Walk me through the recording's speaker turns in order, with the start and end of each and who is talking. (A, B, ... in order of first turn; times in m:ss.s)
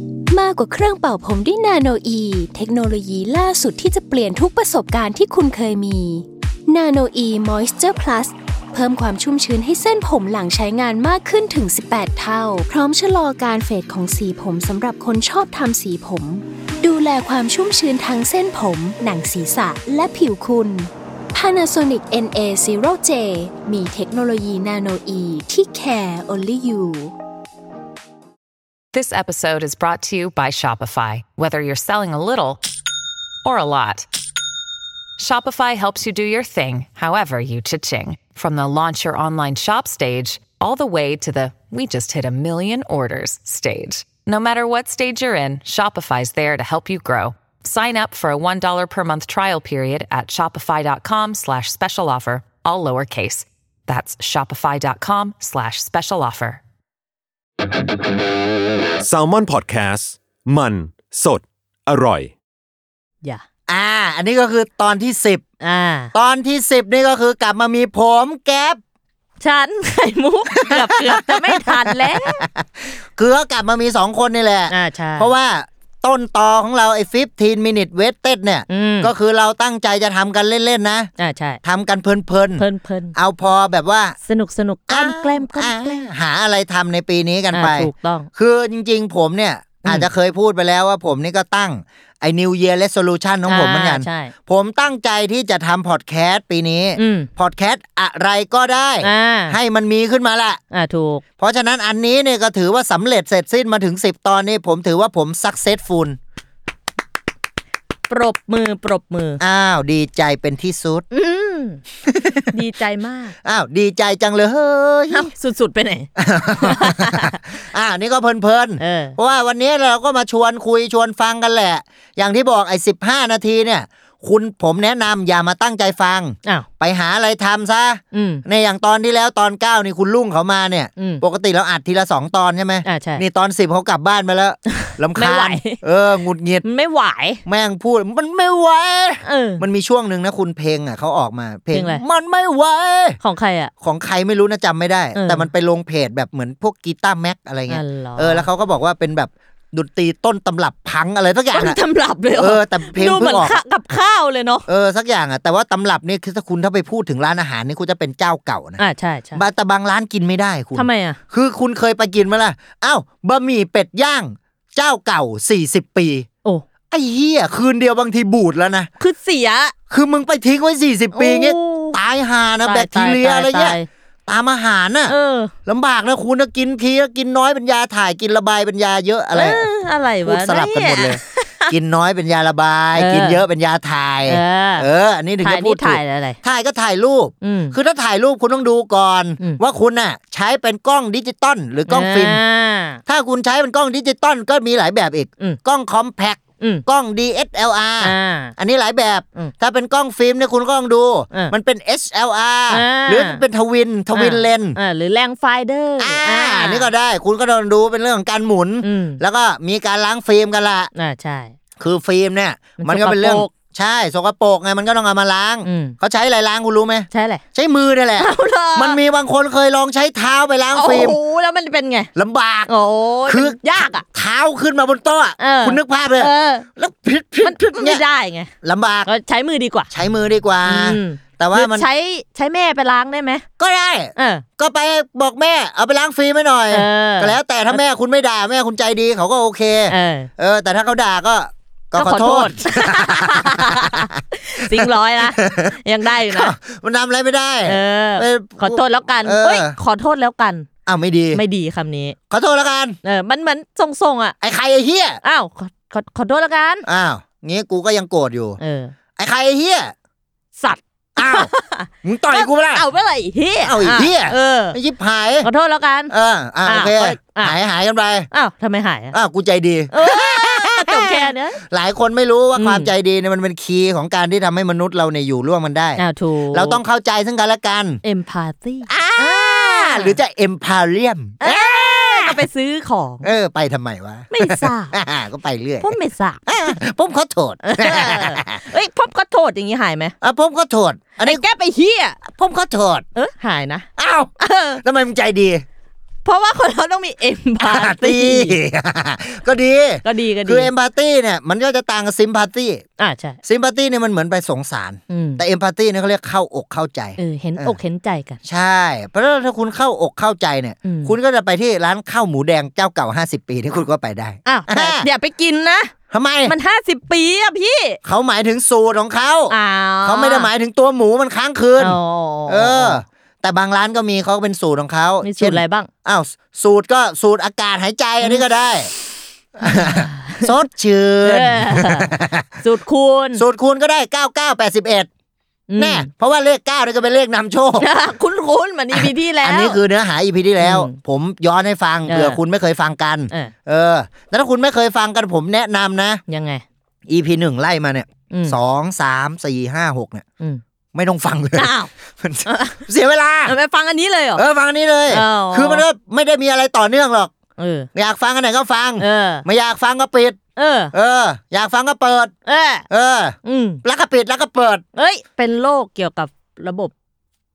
0:00.3-0:27.1 A
0:28.9-0:32.6 B
0:33.4-0:34.1 B
0:35.2-0:56.6 B
0:59.0-1:02.3 C
1:03.7-1:05.4 D
1:05.6-1:06.1 E
1:06.1-1:08.8 D
1:09.4-1:12.4 E
1:10.6-1:21.1 D
1:14.7-1:15.3 E
1:18.7-1:19.1 E
1:21.2-1:21.6 E
1:21.6-1:24.2 D
1:22.6-1:23.1 E
1:24.2-1:26.1 E
1:24.9-1:40.6 D
1:27.5-1:28.3 E
1:33.4-1:34.3 E
1:37.0-1:37.3 E
1:39.0-1:39.6 E
1:40.7-1:41.2 E
1:41.4-1:46.2 D
1:48.1-1:49.4 E
1:49.4-1:51.0 D
1:51.1-1:51.8 E
1:52.1-1:52.5 D
1:52.5-1:53.3 E
1:53.4-1:55.3 D
1:55.1-1:57.4 E
1:56.2-2:16.6 D
1:58.8-1:59.2 E
2:08.1-2:08.4 E
2:11.0-2:11.2 E
2:12.8-2:13.2 E
2:14.8-2:15.8 E
2:16.6-2:17.4 E
2:17.4-2:23.2 D
2:19.2-2:19.6 E
2:21.7-2:22.0 E
2:23.2-2:23.7 E
2:23.8-2:31.8 D
2:25.1-2:25.5 E
2:27.7-2:28.5 E
2:31.5-2:34.6 E
2:32.4-2:33.6 D
2:34.7-2:38.8 D
2:38.8-2:39.4 E
2:39.3-2:46.3 D
2:40.7-2:41.2 E
2:46.9-2:48.9 D
2:49.0-2:49.7 E
2:49.9-2:55.1 D
2:51.1-2:52.0 E
2:52.6-2:53.9 E
2:55.1-2:55.5 E
2:55.6-2:59.7 D
2:59.3-3:01.7 E
3:00.2-3:12.4 D
3:02.9-3:03.4 E
3:04.2-3:04.9 E
3:05.4-3:06.4 E
3:07.4-3:07.7 E
3:11.9-3:13.0 E
3:13.0-3:24.8 D
3:18.0-3:18.5 E
3:22.7-3:23.4 E
3:24.1-3:26.9 E
3:26.0-3:30.9 D
3:28.8-3:29.2 E
3:30.9-3:31.5 E
3:31.8-3:41.2 D
3:32.8-3:33.5 E
3:35.6-3:36.0 E
3:37.1-3:37.4 E
3:38.2-3:39.0 E
3:40.7-3:42.1 E
3:42.2-3:42.7 D
3:42.7-3:44.0 E
3:43.2-3:48.0 D
3:45.4-3:46.6 E
3:47.4-3:48.5 E
3:48.6-3:49.1 D
3:49.0-3:49.9 E
3:49.9-3:51.9 D
3:50.6-3:53.4 E
3:53.6-4:04.1 D
3:54.2-3:54.4 E
3:56.7-3:57.8 E
3:59.9-4:00.3 E
4:01.9-4:06.5 E
4:04.6-4:09.8 D
4:07.6-4:10.7 E
4:10.8-4:11.4 D
4:11.3-4:12.2 E
4:12.3-4:13.0 D
4:13.0-4:14.3 E
4:14.4-4:15.2 D
4:15.2-4:16.8 E
4:16.8-4:18.6 D
4:18.6-4:18.9 E
4:19.2-4:19.9 D
4:20.6-4:24.8 E
4:21.2-4:21.5 D
4:22.0-4:22.8 D
4:23.6-4:25.5 D
4:25.4-4:27.6 E
4:26.1-4:28.3 D
4:28.3-4:29.1 E
4:29.1-4:38.0 D
4:29.9-4:31.6 E
4:32.6-4:32.9 E
4:36.0-4:36.8 E
4:38.0-4:40.2 E
4:38.9-4:42.4 D
4:41.4-4:43.3 E
4:43.2-4:46.0 D
4:44.3-4:45.0 E
4:45.8-4:46.4 E
4:46.5-4:48.6 D
4:47.6-4:50.1 E
4:50.2-4:51.4 D
4:51.2-4:52.2 E
4:52.2-4:53.0 D
4:53.1-4:53.9 E
4:54.0-4:55.6 D
4:54.4-4:54.8 E
4:56.2-4:58.6 E
4:57.6-5:02.8 D
5:00.0-5:00.7 E
5:03.0-5:03.4 E
5:03.4-5:07.8 D
5:05.1-5:05.4 E
5:07.2-5:08.4 E
5:08.4-5:15.1 D
5:10.8-5:11.1 E
5:14.4-5:15.9 E
5:16.1-5:16.6 D
5:16.4-5:18.0 E
5:18.0-5:28.9 D
5:19.5-5:20.5 E
5:21.8-5:23.0 E
5:25.2-5:25.9 E
5:29.6-5:32.6 D
5:29.6-5:30.5 E
5:31.2-5:33.4 E
5:33.4-5:35.1 D
5:35.7-5:36.1 E
5:35.8-5:37.9 D
5:37.8-5:39.8 E
5:38.9-5:46.2 D
5:40.6-5:40.9 E
5:42.0-5:42.4 E
5:46.3-5:46.6 E
5:47.1-5:50.2 D
5:48.3-5:48.6 E
5:50.9-5:53.6 D
5:51.5-5:51.9 E
5:52.4-5:52.8 E
5:53.4-5:54.4 E
5:54.3-5:57.3 D
5:55.1-5:55.8 E
5:57.6-5:57.9 E
5:57.9-6:00.4 D
5:59.0-5:59.4 E
6:00.6-6:00.9 E
6:00.9-6:02.3 D
6:02.4-6:02.8 E
6:02.9-6:04.8 D
6:03.4-6:03.8 E
6:04.9-6:06.9 E